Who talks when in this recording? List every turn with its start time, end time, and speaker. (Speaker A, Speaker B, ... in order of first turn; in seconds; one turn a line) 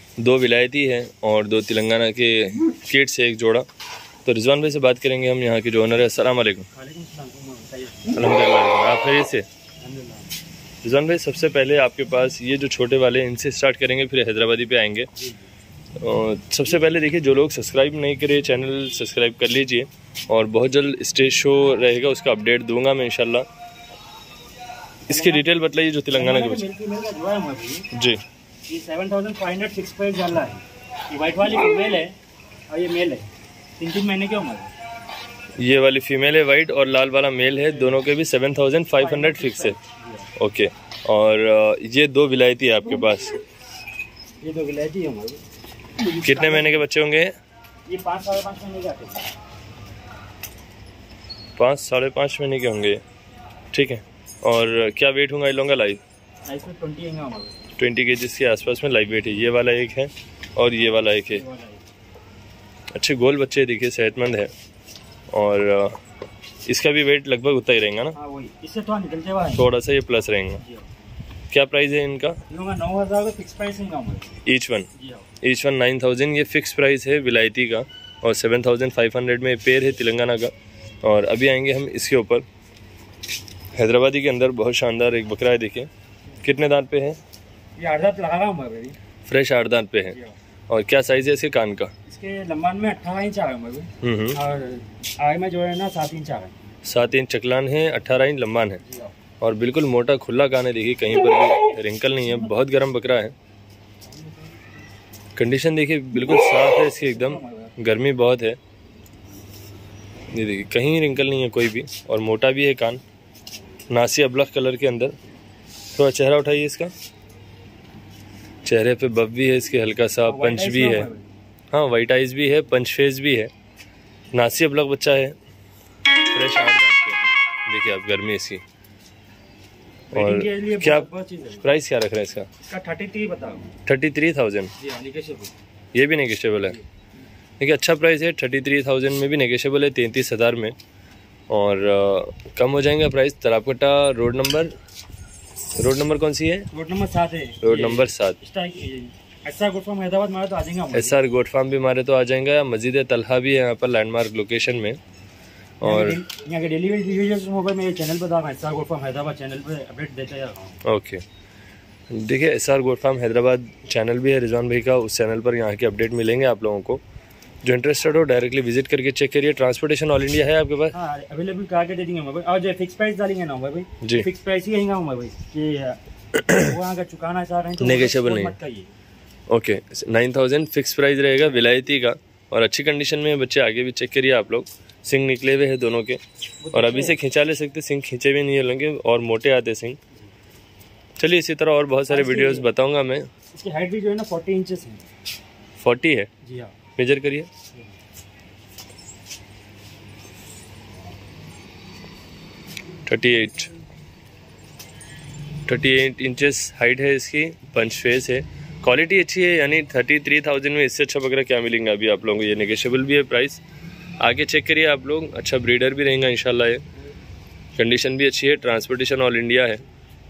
Speaker A: 0.2-3.6
Speaker A: 4.2-6.7
Speaker B: 6.7-8.3
Speaker A: 8.1-9.5
Speaker B: 9.8-10.3
Speaker A: 10.8-15.1
Speaker B: 15.2-15.5
Speaker A: 16.0-23.4
Speaker A: 25.1-26.6
Speaker B: 25.1-25.4
Speaker B: 26.1-27.9
Speaker A: 27.9-28.2
Speaker B: 28.7-32.1
Speaker B: 32.7-34.7
Speaker A: 35.6-39.8
Speaker B: 37.7-38.0
Speaker B: 38.9-40.3
Speaker A: 40.4-43.4
Speaker B: 44.4-45.4
Speaker B: 46.0-46.8
Speaker A: 46.2-47.3
Speaker B: 47.9-49.3
Speaker A: 51.6-53.0
Speaker A: 53.7-56.0
Speaker B: 56.5-57.6
Speaker A: 57.8-61.4
Speaker B: 61.2-61.8
Speaker A: 62.9-64.5
Speaker A: 65.3-66.0
Speaker A: 66.7-68.1
Speaker B: 68.1-69.6
Speaker A: 69.5-70.6
Speaker B: 70.6-70.9
Speaker A: 71.5-72.3
Speaker B: 72.5-74.4
Speaker A: 74.5-74.9
Speaker B: 74.9-75.3
Speaker A: 75.4-82.4
Speaker A: 83.7-85.9
Speaker A: 86.4-87.2
Speaker B: 87.8-89.0
Speaker A: 89.3-90.2
Speaker A: 90.7-91.9
Speaker B: 92.1-96.5
Speaker A: 94.0-94.4
Speaker A: 96.8-98.8
Speaker B: 98.8-99.1
Speaker A: 99.4-103.3
Speaker A: 105.3-108.6
Speaker B: 107.0-107.7
Speaker A: 110.3-113.0
Speaker A: 113.9-115.1
Speaker A: 115.9-116.9
Speaker A: 118.6-121.1
Speaker B: 120.2-121.3
Speaker A: 121.7-123.5
Speaker A: 124.3-125.3
Speaker A: 126.3-128.6
Speaker A: 130.1-131.1
Speaker B: 130.1-131.7
Speaker A: 131.6-132.4
Speaker B: 132.6-133.7
Speaker A: 133.8-134.7
Speaker B: 134.8-135.5
Speaker A: 135.9-136.8
Speaker A: 137.6-140.7
Speaker A: 141.5-144.7
Speaker A: 145.8-146.7
Speaker B: 146.7-151.1
Speaker A: 147.6-148.4
Speaker A: 150.9-155.0
Speaker A: 155.8-156.2
Speaker B: 155.8-160.8
Speaker A: 160.8-161.2
Speaker A: 162.1-167.0
Speaker A: 167.6-170.9
Speaker B: 170.9-178.9
Speaker A: 174.0-174.3
Speaker A: 177.8-178.6
Speaker A: 179.5-186.2
Speaker B: 186.6-187.2
Speaker A: 186.7-190.0
Speaker A: 191.2-193.3
Speaker B: 192.1-192.7
Speaker B: 193.5-195.1
Speaker A: 195.8-196.3
Speaker B: 196.4-196.7
Speaker A: 196.9-197.5
Speaker A: 203.1-203.7
Speaker A: 205.7-213.6
Speaker A: 214.2-216.8
Speaker A: 217.8-219.8